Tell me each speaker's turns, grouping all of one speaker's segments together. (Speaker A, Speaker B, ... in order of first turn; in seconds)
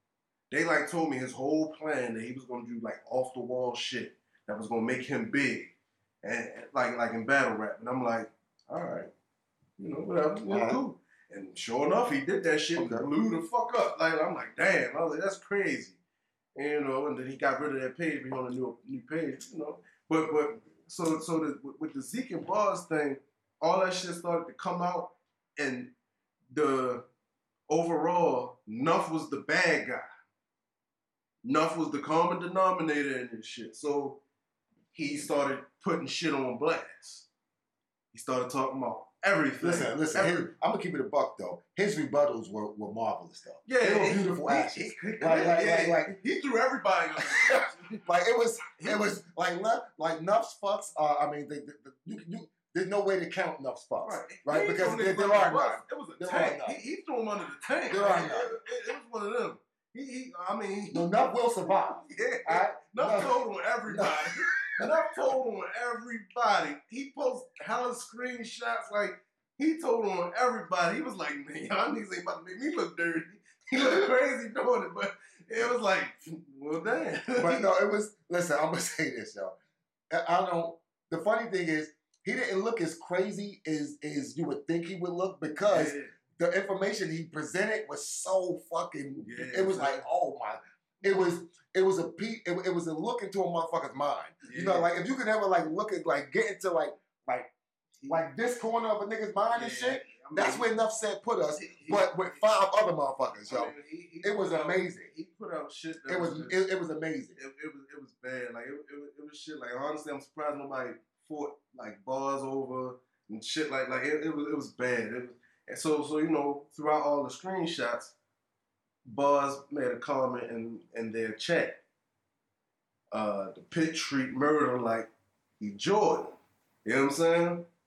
Speaker A: 0.5-9.1, 9.8-16.0, 16.6-25.9, 26.5-27.1, 27.7-30.1, 31.4-34.2, 34.9-37.3, 38.1-40.5, 43.6-48.0, 48.8-49.0, 54.0-61.1, 61.6-77.7, 85.6-86.2, 89.2-90.1, 94.4-94.9, 99.5-100.7, 101.5-102.5, 103.5-106.6, 107.4-118.2, 119.0-121.8, 123.1-127.7
Speaker B: 10.5-10.8, 12.8-13.1, 39.6-46.1, 47.5-56.8, 57.9-58.6, 60.9-65.0, 77.4-79.5, 80.1-97.5, 98.1-105.1, 106.1-107.4